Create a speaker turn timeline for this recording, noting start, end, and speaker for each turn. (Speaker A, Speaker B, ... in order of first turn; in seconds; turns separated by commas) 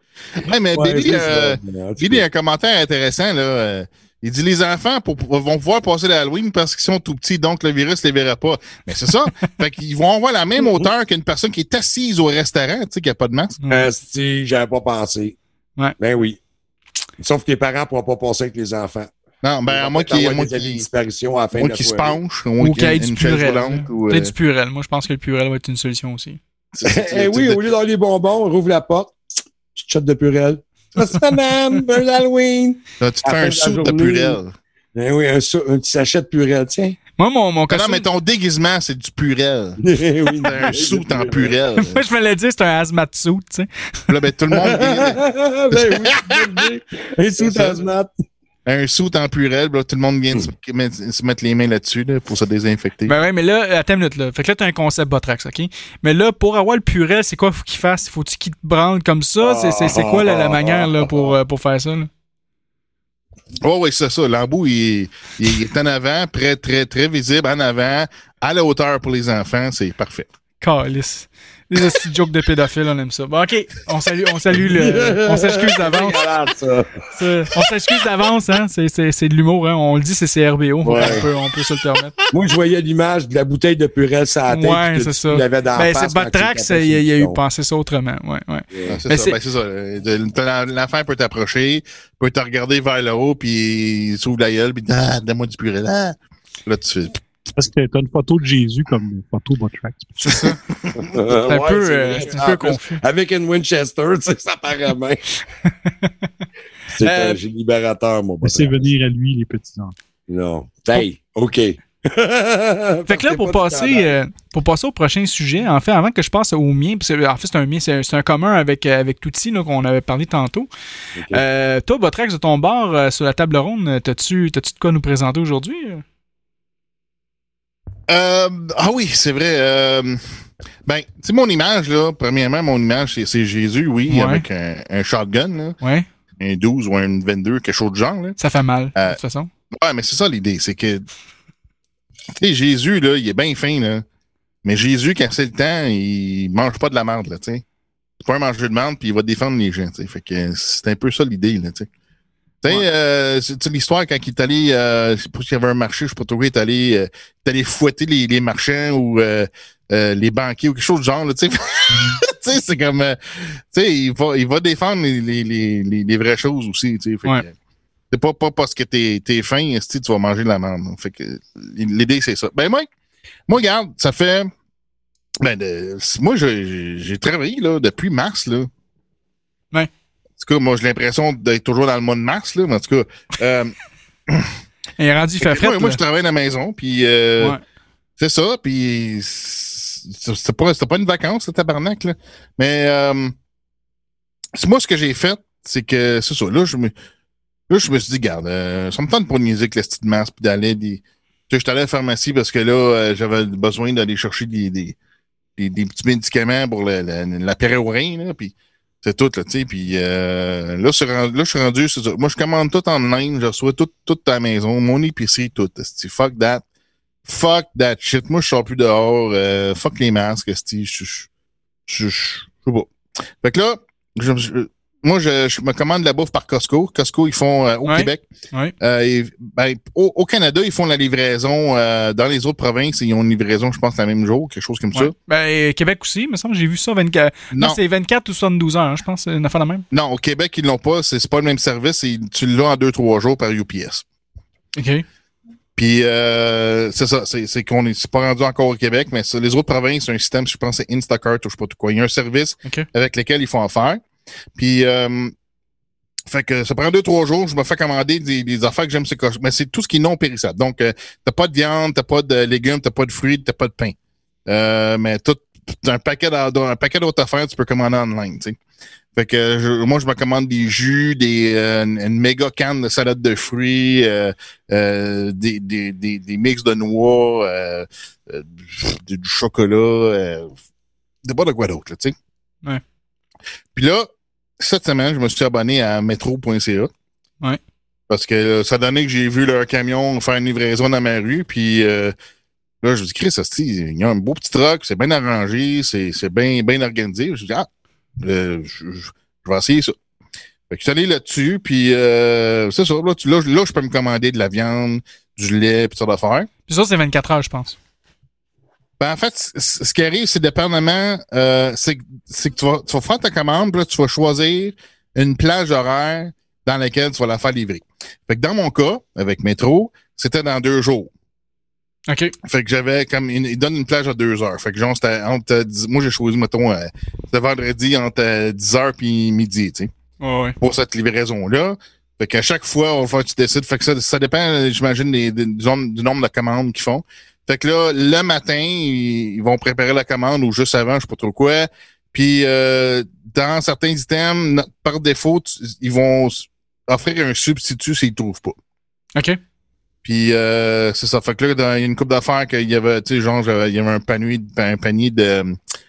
Speaker A: 0.4-13.6, Speaker B: 0.7-2.2, Speaker B: 10.6-10.9, Speaker C: 13.6-13.9, Speaker B: 13.7-15.3, Speaker B: 16.0-16.4, Speaker B: 17.2-19.1, Speaker A: 19.4-20.9, Speaker B: 19.7-22.2, Speaker A: 21.5-24.3, Speaker C: 22.6-26.4, Speaker A: 26.7-27.6, Speaker B: 26.8-29.1, Speaker B: 29.7-34.4, Speaker A: 33.0-34.5, Speaker B: 34.9-37.0, Speaker C: 37.2-38.0, Speaker A: 37.7-39.8, Speaker B: 39.8-41.9, Speaker A: 40.4-42.0, Speaker C: 41.9-43.7, Speaker A: 44.1-45.2, Speaker B: 44.5-48.1, Speaker A: 48.6-53.1, Speaker C: 53.0-62.1, Speaker B: 59.4-61.3, Speaker A: 63.6-70.3, Speaker C: 70.6-76.2, Speaker B: 74.5-77.0, Speaker C: 77.1-82.1, Speaker B: 80.8-81.2, Speaker A: 80.9-81.2, Speaker B: 82.3-87.4, Speaker C: 84.5-89.4, Speaker B: 88.7-89.0, Speaker A: 88.9-97.2, Speaker D: 97.5-100.5, Speaker C: 100.2-100.6, Speaker B: 101.0-105.2, Speaker C: 101.5-103.0, Speaker C: 105.8-106.3, Speaker B: 106.9-108.9, Speaker C: 107.0-107.4, Speaker D: 108.4-109.9, Speaker B: 110.3-114.1, Speaker C: 113.1-120.7, Speaker B: 121.2-121.4, Speaker C: 121.3-126.0, Speaker A: 128.1-130.2, Speaker A: 130.8-135.8, Speaker C: 134.1-134.4, Speaker C: 135.8-136.1, Speaker A: 136.4-138.4, Speaker C: 138.4-139.5, Speaker A: 139.7-141.1, Speaker A: 142.4-144.0, Speaker A: 144.6-147.6, Speaker A: 148.2-151.9, Speaker A: 152.6-167.5, Speaker A: 168.1-172.9, Speaker A: 173.5-174.5, Speaker A: 175.4-178.7, Speaker A: 180.4-183.7, Speaker A: 184.3-184.5, Speaker C: 185.0-186.0, Speaker A: 185.4-187.6, Speaker A: 188.2-193.3, Speaker A: 194.5-196.9, Speaker A: 197.7-204.9, Speaker A: 205.6-216.6, Speaker A: 217.2-221.3, Speaker A: 221.9-222.9, Speaker A: 223.4-228.2, Speaker C: 227.8-228.7, Speaker A: 228.8-235.1, Speaker C: 234.9-239.8, Speaker A: 237.5-237.8, Speaker A: 239.9-244.0, Speaker C: 244.8-245.0, Speaker A: 245.8-254.0, Speaker A: 254.6-255.3, Speaker A: 256.3-263.9, Speaker A: 264.5-268.6, Speaker A: 269.1-280.5, Speaker A: 281.2-282.1, Speaker A: 283.7-284.1, Speaker A: 284.6-286.9, Speaker A: 288.1-292.1, Speaker A: 292.8-297.7, Speaker A: 298.2-299.9, Speaker A: 300.7-306.5, Speaker C: 306.7-307.8, Speaker A: 309.0-321.1, Speaker C: 322.1-322.3, Speaker A: 322.4-329.9, Speaker C: 330.2-330.6, Speaker A: 330.6-348.6, Speaker A: 350.0-355.6